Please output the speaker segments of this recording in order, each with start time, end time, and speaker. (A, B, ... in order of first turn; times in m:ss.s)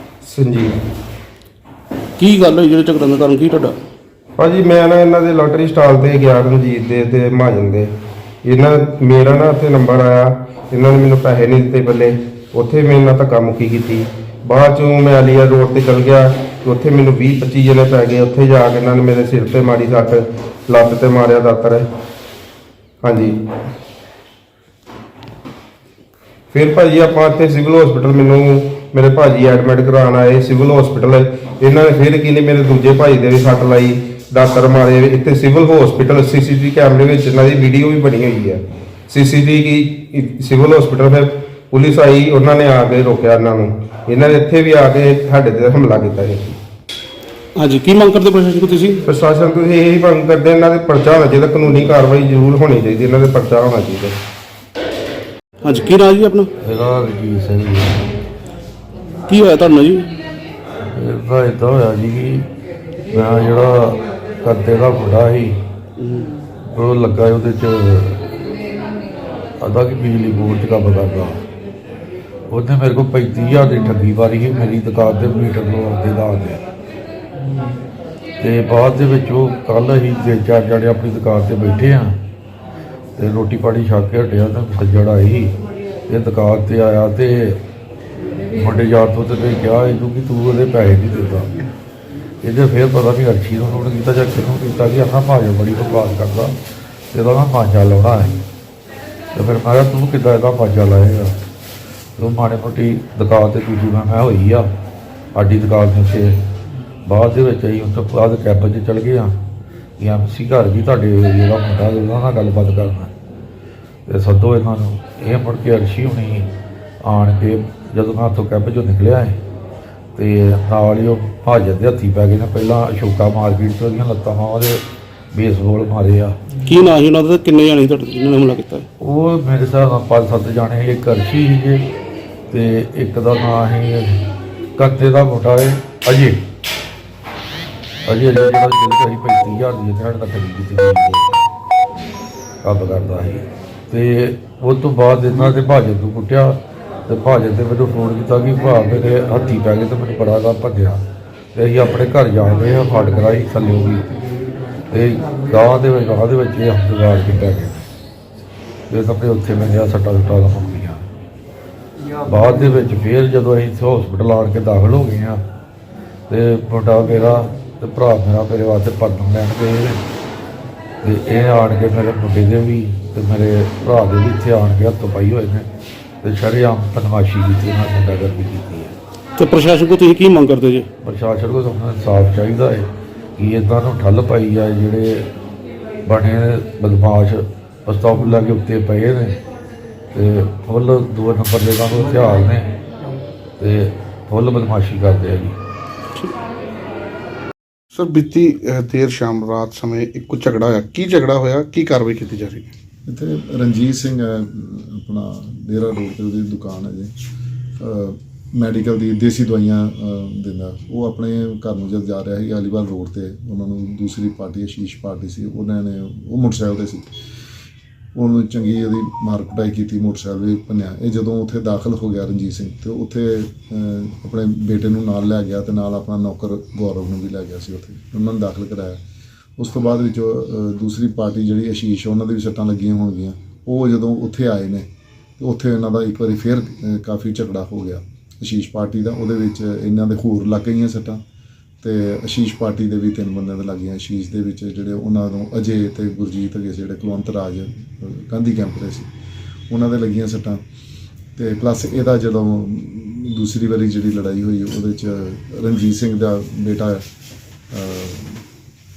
0:00.2-0:00.8 A
0:02.2-0:03.7 B
0:04.4-0:07.9 A
0:08.4-0:21.9 A
0:23.0-0:23.4 A
0:26.5-0:46.6 A
0:47.6-0:49.0 B
0:49.1-0:54.2 A
0:55.6-0:56.5 B
0:56.6-0:58.1 C
0:59.3-1:00.1 B
1:00.9-1:02.5 C
1:03.1-1:05.5 C
1:06.0-1:06.3 B
1:06.7-1:08.4 C
1:09.6-1:11.4 C
1:12.5-1:16.6 C
1:18.4-1:22.2 C
1:23.2-1:25.6 C
1:26.1-1:27.6 C
1:28.5-1:31.7 C
1:32.4-1:36.6 C
1:37.1-1:38.4 C
1:39.3-1:41.3 C
1:42.2-1:44.6 C
1:45.4-1:46.4 C
1:47.0-1:49.4 C
1:50.0-1:53.1 C
1:54.1-1:56.5 C
1:57.0-1:59.4 C
2:00.2-2:06.4 C
2:06.6-2:08.9 B
2:09.0-2:11.8 C
2:12.5-2:14.2 C
2:14.8-2:16.4 C
2:18.0-2:21.4 C
2:22.6-2:31.0 C
2:31.5-2:34.1 C
2:34.9-2:37.8 C
2:38.9-2:41.0 C
2:42.2-2:45.4 C
2:46.3-2:50.0 C
2:51.0-2:55.7 C
2:56.2-2:59.0 C
2:59.4-3:00.9 B
3:01.0-3:02.9 C
3:03.4-3:05.3 C
3:06.0-3:09.4 C
3:10.1-3:12.7 C
3:13.6-3:15.6 C
3:17.9-3:22.7 D
3:23.1-3:27.1 E
3:27.8-3:37.1 E
3:38.2-3:49.0 E
3:49.6-4:01.2 E
4:01.8-4:09.1 E
4:09.7-4:10.6 E
4:11.4-4:17.0 E
4:17.7-4:18.4 E